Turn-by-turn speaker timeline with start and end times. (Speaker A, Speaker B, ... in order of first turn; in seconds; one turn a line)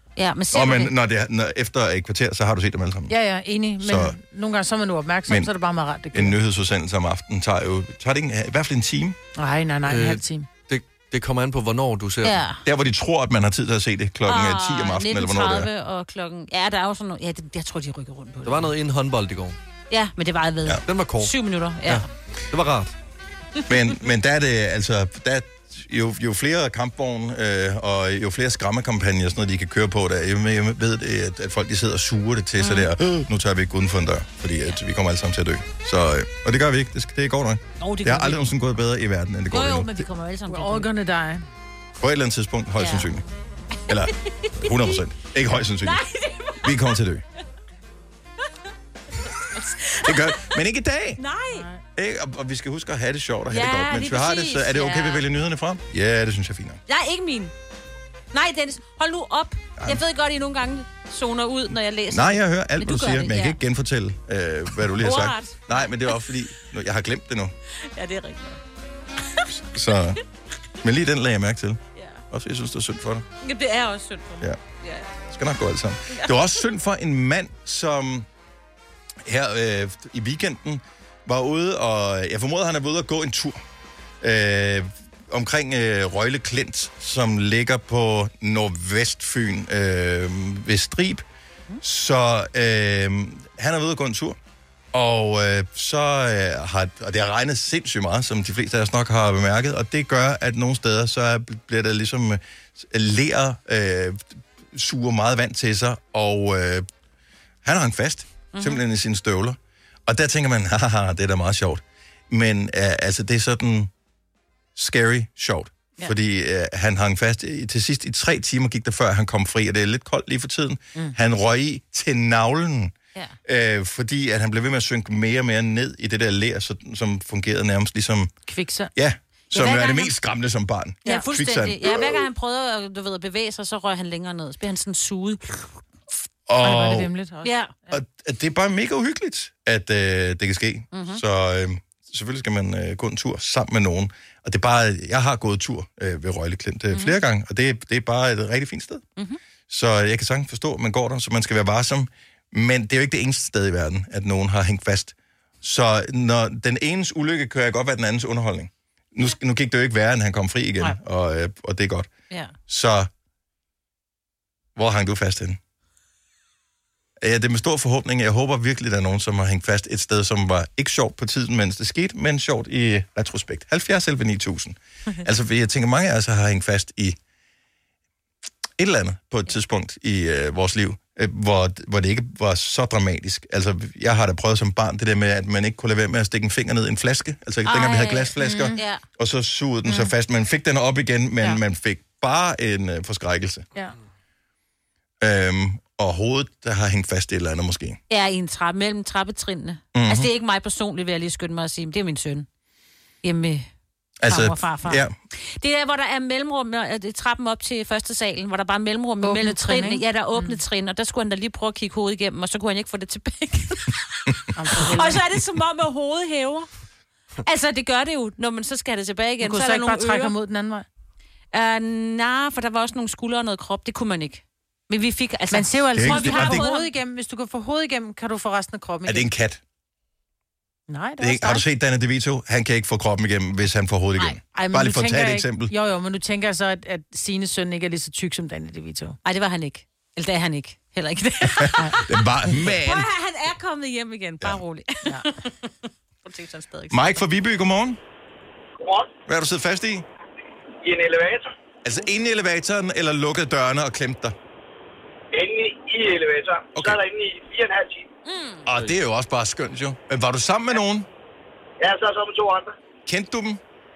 Speaker A: 0.2-0.9
Speaker B: 0.5-3.1
Speaker C: 3.1-6.4
Speaker B: 3.8-4.2
Speaker B: 6.1-9.2
Speaker C: 9.4-10.5
Speaker D: 9.9-12.5
Speaker A: 12.2-12.6
Speaker B: 12.7-15.7
Speaker A: 14.3-18.7
Speaker D: 18.4-19.6
Speaker A: 19.9-22.1
Speaker D: 20.9-22.9
Speaker B: 23.7-40.1
Speaker A: 32.6-32.9
Speaker A: 37.8-38.5
Speaker A: 39.5-40.9
Speaker C: 40.5-41.5
Speaker B: 42.0-43.2
Speaker A: 42.8-43.1
Speaker A: 43.8-45.0
Speaker B: 43.9-46.0
Speaker A: 45.8-46.6
Speaker B: 46.6-47.2
Speaker A: 49.5-50.3
Speaker B: 50.0-51.2
Speaker A: 51.2-51.7
Speaker C: 51.5-51.8
Speaker B: 52.0-56.8
Speaker A: 53.5-55.2
Speaker A: 56.9-57.5
Speaker A: 58.3-63.6
Speaker B: 62.1-67.5
Speaker A: 65.0-66.2
Speaker A: 67.9-68.6
Speaker B: 69.6-70.2
Speaker B: 70.8-73.3
Speaker A: 73.4-75.1
Speaker B: 75.3-78.3
Speaker A: 76.1-76.4
Speaker B: 79.2-83.6
Speaker B: 84.2-91.2
Speaker B: 91.8-94.4
Speaker B: 94.9-106.8
Speaker B: 107.6-113.9
Speaker A: 108.5-108.8
Speaker B: 114.8-122.9
Speaker B: 123.5-128.3
Speaker C: 128.5-128.9
Speaker B: 128.9-132.3
Speaker A: 129.5-130.1
Speaker A: 131.1-135.8
Speaker B: 136.5-137.1
Speaker C: 136.6-137.6
Speaker A: 137.4-137.7
Speaker B: 137.9-149.1
Speaker A: 140.9-141.2
Speaker A: 146.9-147.2
Speaker B: 149.7-162.1
Speaker A: 162.3-162.6
Speaker B: 162.7-163.1
Speaker B: 164.8-165.6
Speaker B: 167.2-177.2
Speaker B: 178.8-193.7
Speaker A: 187.7-189.0
Speaker C: 188.4-188.8
Speaker B: 195.2-198.0
Speaker A: 198.1-202.5
Speaker B: 199.9-200.3
Speaker A: 203.2-203.7
Speaker B: 204.2-205.2
Speaker A: 204.3-216.7
Speaker C: 209.2-210.6
Speaker C: 214.6-215.2
Speaker A: 217.4-220.3
Speaker C: 219.4-220.9
Speaker A: 221.5-226.9
Speaker C: 225.5-229.3
Speaker B: 225.9-226.7
Speaker B: 229.1-229.6
Speaker C: 230.9-231.7
Speaker B: 231.2-235.7
Speaker C: 234.5-239.2
Speaker A: 239.2-245.7
Speaker B: 241.5-243.1
Speaker A: 246.2-247.2
Speaker B: 246.9-248.0
Speaker E: 248.8-249.1
Speaker B: 249.3-250.1
Speaker E: 250.8-251.5
Speaker B: 251.8-254.3
Speaker E: 255.3-258.1
Speaker B: 256.8-257.0
Speaker A: 258.2-258.7
Speaker B: 258.7-261.1
Speaker E: 261.8-262.7
Speaker B: 263.1-263.6